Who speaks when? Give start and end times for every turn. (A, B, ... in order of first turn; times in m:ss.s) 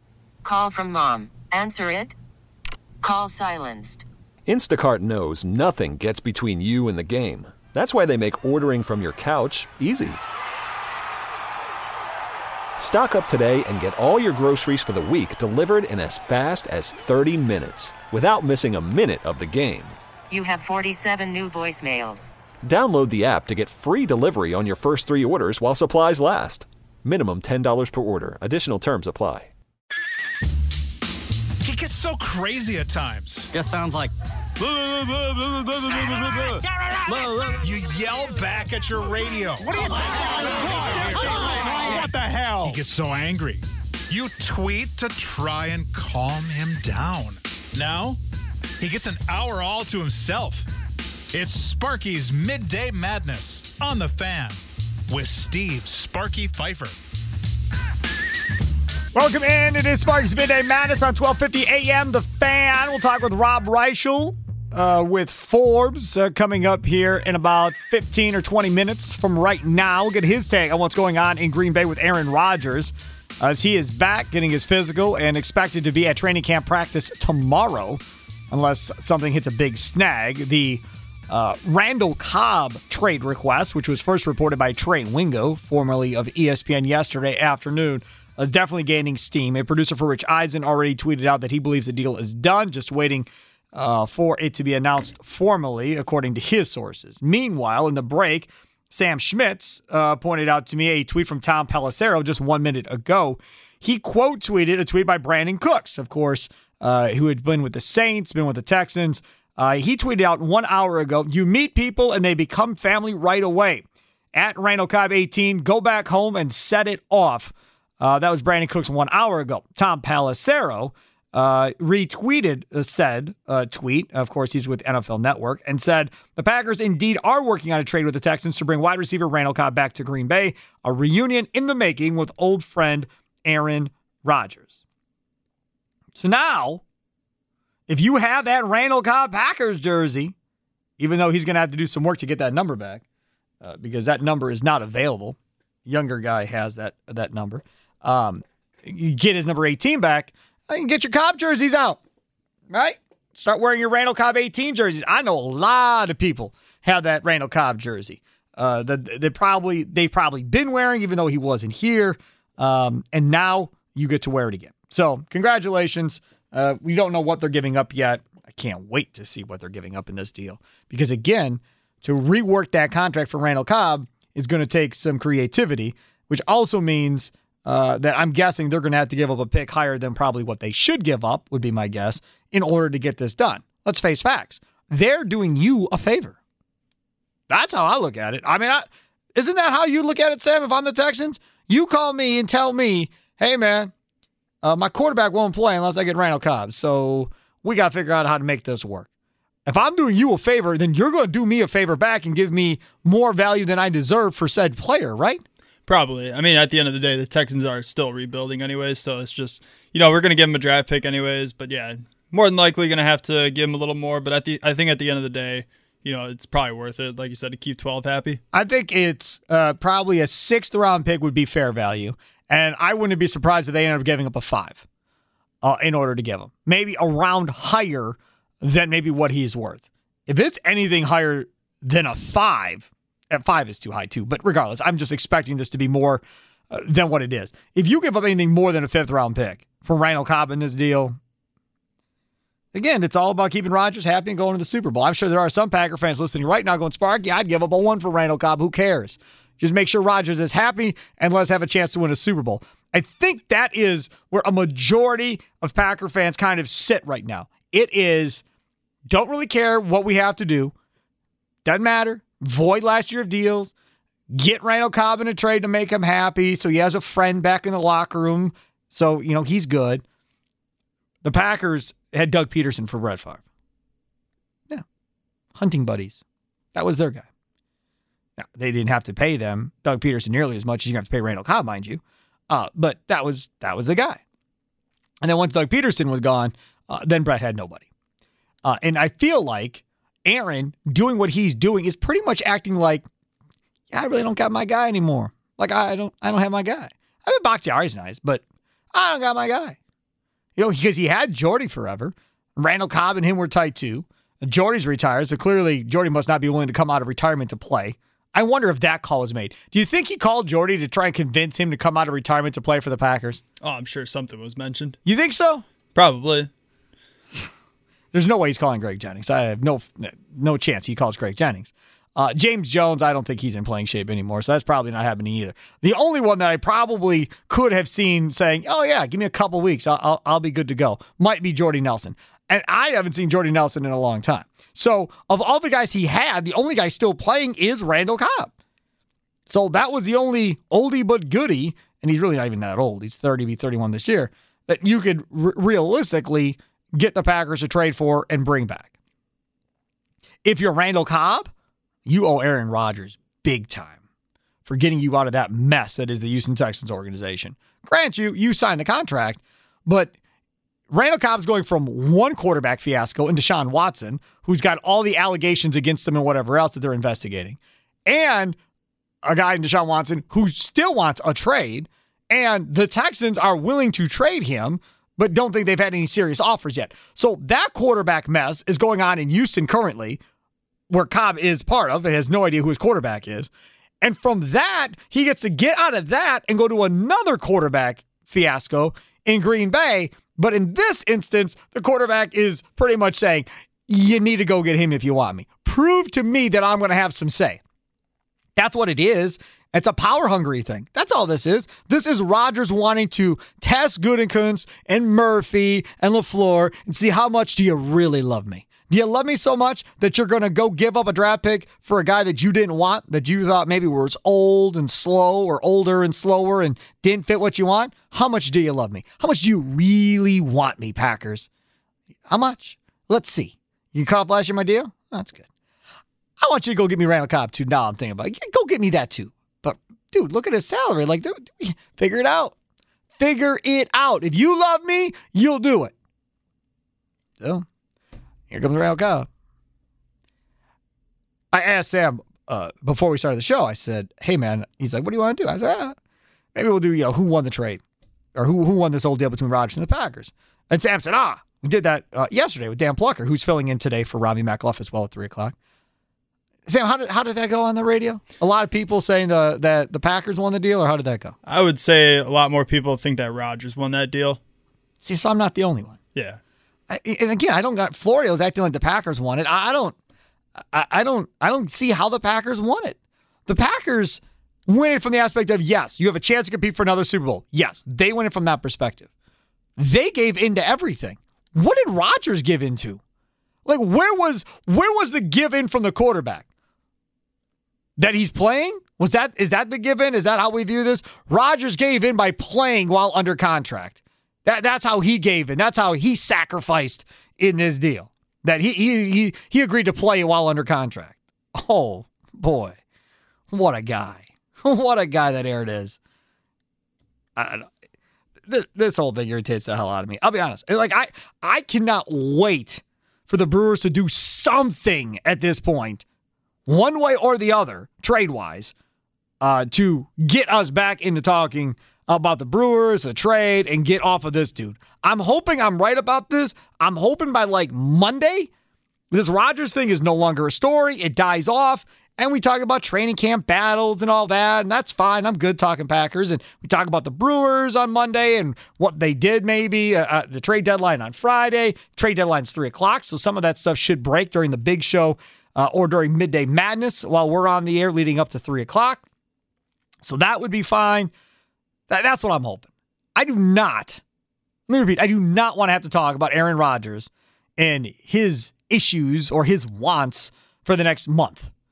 0:00.4-0:02.1 A
0:03.0-0:04.0 A
0:04.5-0:10.2 B
0:12.8-0:20.0 B
0:20.3-0:22.3 A
0:22.6-0:29.5 B
0:31.6-0:33.5 C
0:33.5-0:34.1 D
0:35.9-0:37.6 D
0:37.6-0:48.2 C
0:40.9-0:42.0 D
0:48.8-0:50.7 C
0:51.3-0:57.0 C
0:59.1-2:14.8 E
2:16.2-2:16.8 E
2:17.9-2:20.4 E
2:21.0-2:23.0 E
2:23.6-2:32.0 E
2:32.7-3:06.4 E
3:07.5-3:13.9 E
3:14.6-3:19.1 E
3:19.7-3:25.4 E
3:25.9-3:38.4 F
3:38.5-3:44.8 E
3:45.6-4:01.2 E
4:02.7-4:18.4 E
4:19.1-4:20.7 E
4:21.6-4:23.7 E
4:24.3-4:30.0 E
4:31.2-4:33.4 E
4:35.6-4:36.2 E
4:36.7-4:37.3 E
4:38.4-4:44.2 E
4:45.2-4:47.9 E
4:48.6-4:53.0 E
4:53.9-4:58.4 E
4:58.9-4:59.8 E
5:00.6-5:13.4 E
5:13.6-5:15.0 F
5:15.0-5:15.6 E
5:15.9-5:16.5 F
5:18.1-5:38.5 E
5:39.5-5:48.9 E
5:50.4-5:51.5 E
5:52.1-5:54.0 E
5:54.7-6:00.1 E
6:00.9-6:08.6 E
6:09.2-6:20.2 E
6:20.9-6:23.5 E
6:24.0-6:37.6 E
6:38.6-7:01.5 E
7:02.3-7:05.4 E
7:06.4-7:12.6 E
7:13.2-7:15.9 E
7:17.4-7:17.7 E
7:18.5-7:19.3 E
7:21.5-7:26.0 E
7:26.6-7:27.8 E
7:28.4-7:35.6 E
7:36.7-7:41.4 E
7:41.4-7:44.4 F
7:45.0-7:46.0 E
7:46.2-7:46.4 F
7:46.9-7:50.0 E
7:50.7-7:59.1 E
7:59.8-8:03.0 E
8:03.6-8:06.5 E
8:08.0-8:22.8 E
8:23.5-8:26.0 E
8:27.4-8:27.7 E
8:28.5-8:36.0 E
8:36.7-8:38.7 E
8:39.4-8:48.5 E
8:49.1-9:09.0 E
9:10.0-9:11.1 E
9:11.9-9:14.0 E
9:14.7-9:21.5 E